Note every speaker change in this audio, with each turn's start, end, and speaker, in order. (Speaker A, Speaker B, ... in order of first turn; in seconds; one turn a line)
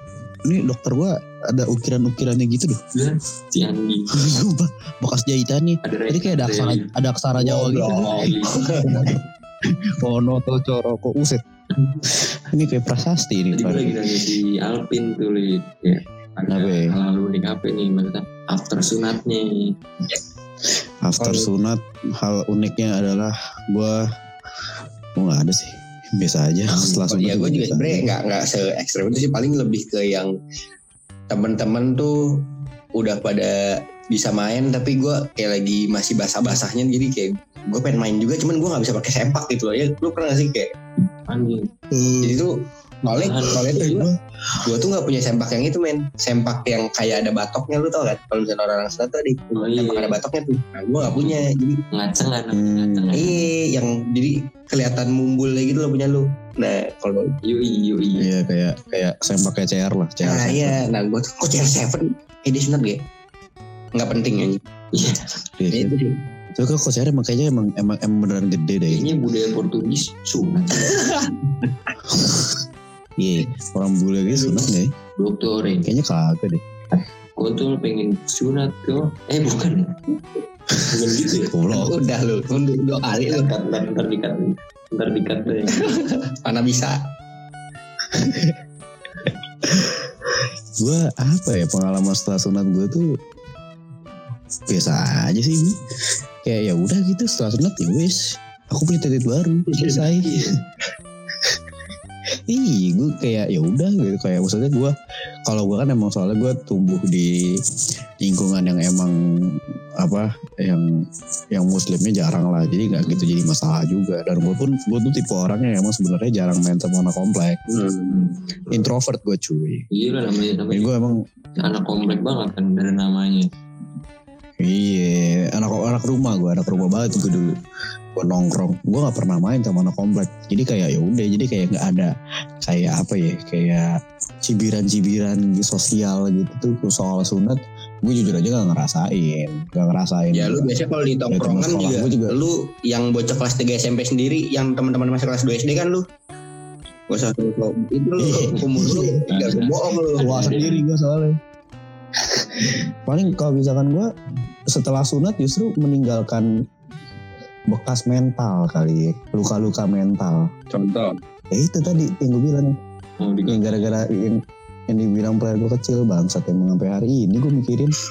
Speaker A: 0.4-2.8
Speaker B: 2.9-4.2
Speaker A: 4.1-8.3
Speaker B: 5.8-6.9
Speaker C: 7.4-9.1
Speaker B: 7.7-8.6
Speaker A: 8.9-11.4
Speaker A: 12.0-14.1
Speaker B: 13.5-19.7
Speaker A: 16.5-16.9
Speaker A: 21.0-24.0
Speaker A: 25.1-28.1
Speaker B: 26.7-27.0
Speaker C: 27.1-30.3
Speaker C: 31.3-32.4
Speaker C: 33.0-40.7
Speaker B: 41.3-41.7
Speaker A: 41.9-42.4
Speaker C: 42.2-44.1
Speaker B: 43.1-43.9
Speaker A: 43.7-44.6
Speaker C: 44.6-51.8
Speaker B: 49.5-50.1
Speaker B: 51.9-53.4
Speaker A: 52.5-53.3
Speaker C: 53.1-57.3
Speaker B: 57.4-58.3
Speaker A: 58.2-60.8
Speaker C: 60.2-63.0
Speaker C: 63.9-64.6
Speaker B: 64.9-65.4
Speaker A: 65.6-65.9
Speaker C: 65.7-66.2
Speaker A: 66.5-69.1
Speaker B: 68.9-71.0
Speaker C: 71.0-71.3
Speaker A: 72.1-72.5
Speaker A: 73.2-74.9
Speaker B: 75.2-75.9
Speaker A: 75.8-76.6
Speaker B: 77.0-80.0
Speaker B: 80.9-81.5
Speaker A: 81.5-82.0
Speaker C: 81.7-83.5
Speaker B: 83.3-85.9
Speaker C: 85.8-87.0
Speaker A: 88.1-88.6
Speaker A: 89.3-93.1
Speaker A: 94.7-95.8
Speaker A: 96.4-100.5
Speaker C: 99.7-100.0
Speaker A: 102.5-104.9
Speaker A: 105.4-107.6
Speaker A: 108.2-110.9
Speaker A: 111.5-117.6
Speaker B: 113.0-113.3
Speaker C: 117.7-118.1
Speaker B: 118.1-118.7
Speaker A: 118.7-119.8
Speaker B: 119.9-120.9
Speaker A: 120.7-121.2
Speaker B: 121.5-123.5
Speaker A: 124.6-127.6
Speaker B: 127.0-127.3
Speaker A: 128.1-140.7
Speaker C: 140.3-146.0
Speaker A: 141.3-142.3
Speaker C: 147.1-150.5
Speaker A: 148.2-149.2
Speaker B: 149.3-150.8
Speaker A: 150.2-151.3
Speaker A: 152.6-154.1
Speaker A: 154.7-156.5
Speaker A: 157.7-160.5
Speaker C: 160.7-161.1
Speaker A: 161.5-162.8
Speaker B: 163.2-164.1
Speaker A: 163.5-167.9